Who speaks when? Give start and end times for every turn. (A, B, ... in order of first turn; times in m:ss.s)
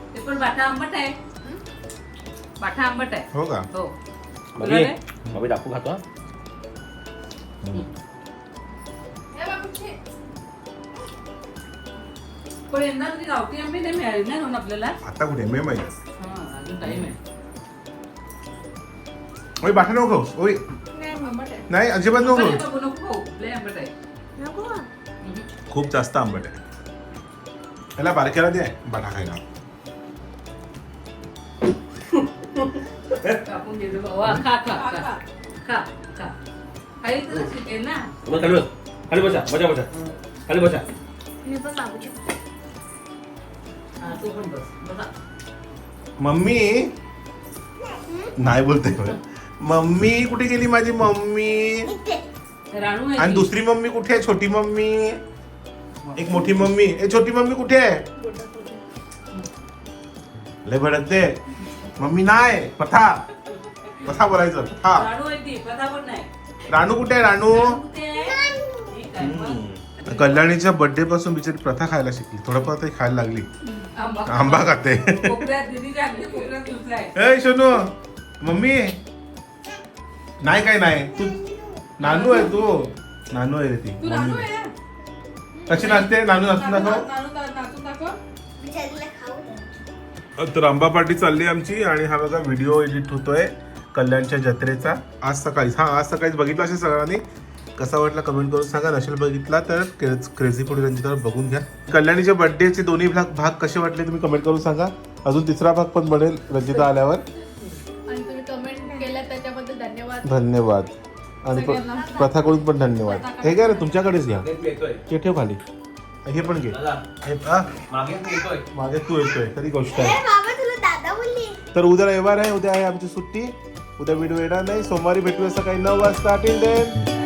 0:00.1-0:01.2 A
0:02.6-0:03.9 A
0:03.3-0:03.7 B
0:04.6-0:06.0 C
0:04.6-0:05.0 A
0:09.3-0:10.0 D
0:12.7-0:15.0 A
0:15.0-0:16.0 B
0:16.2-0:17.2 A
0:16.8-0:17.1 B
0:19.6-0:20.6 B
0:21.0-0:21.7 D
0:21.0-0:21.4 E
0:21.7-0:22.6 B
0:22.2-0:23.9 A
0:24.4-0:24.9 E
0:25.7-0:26.6 B
0:28.0-0:29.4 B
0:33.4-0:35.1 A
0:34.7-0:35.2 D
0:35.6-0:36.3 A
0:37.0-0:38.1 A
0:38.3-0:39.9 C
0:40.5-0:40.9 C
0:41.4-0:42.4 E
0:44.0-0:45.1 A
0:46.2-0:46.9 B
0:47.8-0:48.4 E
0:48.4-0:51.9 B
0:51.9-0:52.2 E
0:52.7-0:53.5 A
0:53.2-0:55.2 B
0:56.2-0:58.0 B
0:58.2-0:58.8 D
1:00.6-1:01.4 B
1:02.0-1:03.2 B
1:04.0-1:05.1 B
1:04.9-1:06.3 A
1:06.7-1:07.8 B
1:07.5-1:10.5 A
1:08.3-1:08.9 E
1:09.2-1:13.5 B
1:13.9-1:17.1 A
1:14.3-1:15.5 B
1:17.2-1:19.0 B
1:20.4-1:21.4 B
1:21.2-1:21.9 E
1:22.0-1:24.5 B
1:22.0-1:22.6 D
1:24.0-1:24.7 D
1:25.7-1:28.2 D
1:25.7-1:27.1 B
1:28.6-1:29.8 E
1:30.4-1:37.2 B
1:37.8-1:47.2 B
1:48.1-1:50.3 D
1:50.2-1:54.5 B
1:51.5-1:52.5 D
1:53.0-1:54.2 D
1:54.4-1:55.0 C
1:55.1-1:55.6 B
1:56.2-1:57.7 B
1:56.7-1:57.0 C
1:57.9-1:58.6 C
1:58.7-2:00.2 B
1:59.9-2:01.6 E
2:01.7-2:07.0 B